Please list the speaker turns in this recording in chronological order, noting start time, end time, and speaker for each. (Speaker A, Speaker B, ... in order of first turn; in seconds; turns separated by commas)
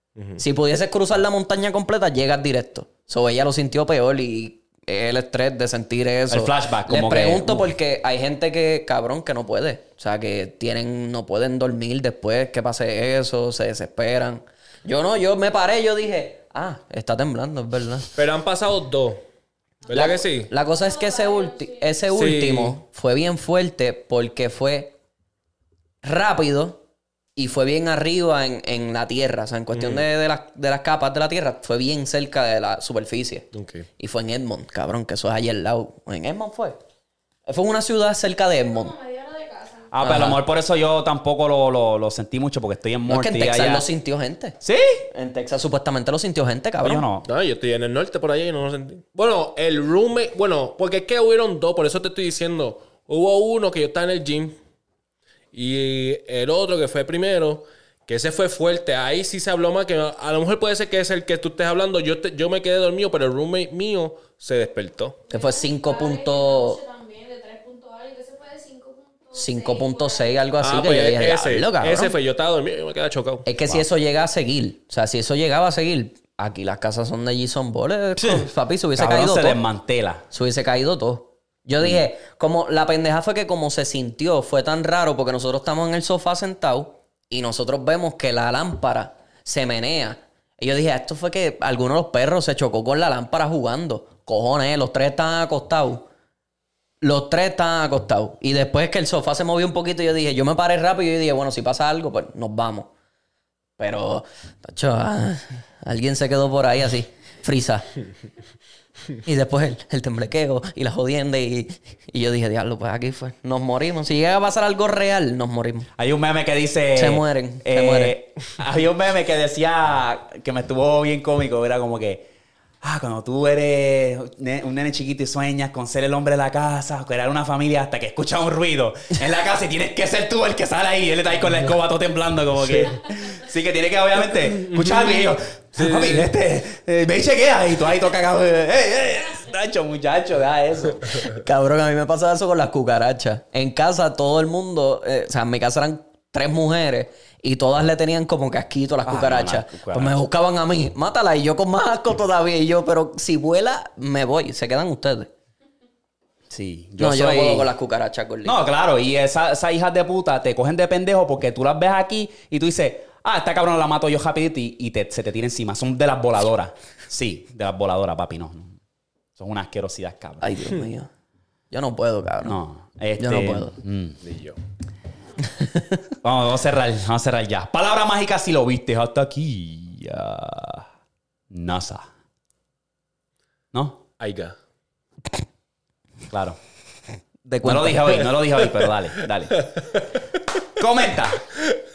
Speaker A: 0.1-0.4, Speaker B: 0.4-18.1, Speaker C: 6.3-7.7, Speaker A: 18.1-19.2, Speaker A: 19.9-20.5, Speaker B: 19.9-24.9, Speaker D: 20.6-21.9, Speaker A: 22.1-22.8, Speaker B: 26.0-26.8, Speaker B: 27.4-33.5, Speaker A: 29.7-30.1, Speaker A: 33.5-33.9, Speaker B: 34.0-36.8, Speaker B: 37.5-38.9, Speaker D: 38.6-39.9, Speaker C: 39.9-43.9, Speaker B: 40.0-40.4, Speaker B: 43.0-44.6, Speaker C: 44.6-45.0, Speaker B: 45.1-47.0, Speaker C: 46.8-47.3, Speaker A: 47.2-54.6, Speaker A: 55.5-65.2, Speaker B: 65.3-66.8, Speaker D: 65.3-70.3, Speaker B: 69.3-72.1, Speaker A: 70.6-73.5, Speaker B: 73.5-79.6, Speaker C: 78.2-80.2, Speaker B: 80.3-96.0, Speaker B: 97.0-102.9, Speaker B: 103.8-107.9, Speaker B: 109.2-115.9, Speaker C: 116.0-122.3, Speaker B: 116.9-118.2, Speaker C: 122.8-141.2, Speaker A: 132.6-132.9, Speaker A: 134.4-136.3, Speaker B: 141.2-155.3, Speaker C: 149.1-150.2, Speaker C: 156.5-157.7, Speaker B: 157.0-158.6, Speaker C: 158.4-168.8, Speaker C: 169.4-170.6, Speaker B: 170.4-171.1, Speaker B: 171.7-172.6, Speaker C: 172.4-174.2, Speaker B: 173.2-173.8, Speaker A: 174.2-174.6, Speaker B: 175.4-175.9, Speaker C: 176.2-180.9, Speaker C: 181.5-182.1, Speaker C: 183.7-184.0, Speaker A: 184.2-184.6, Speaker C: 186.3-186.6, Speaker B: 187.4-188.3, Speaker C: 187.6-189.6, Speaker A: 189.5-190.1, Speaker C: 190.8-191.4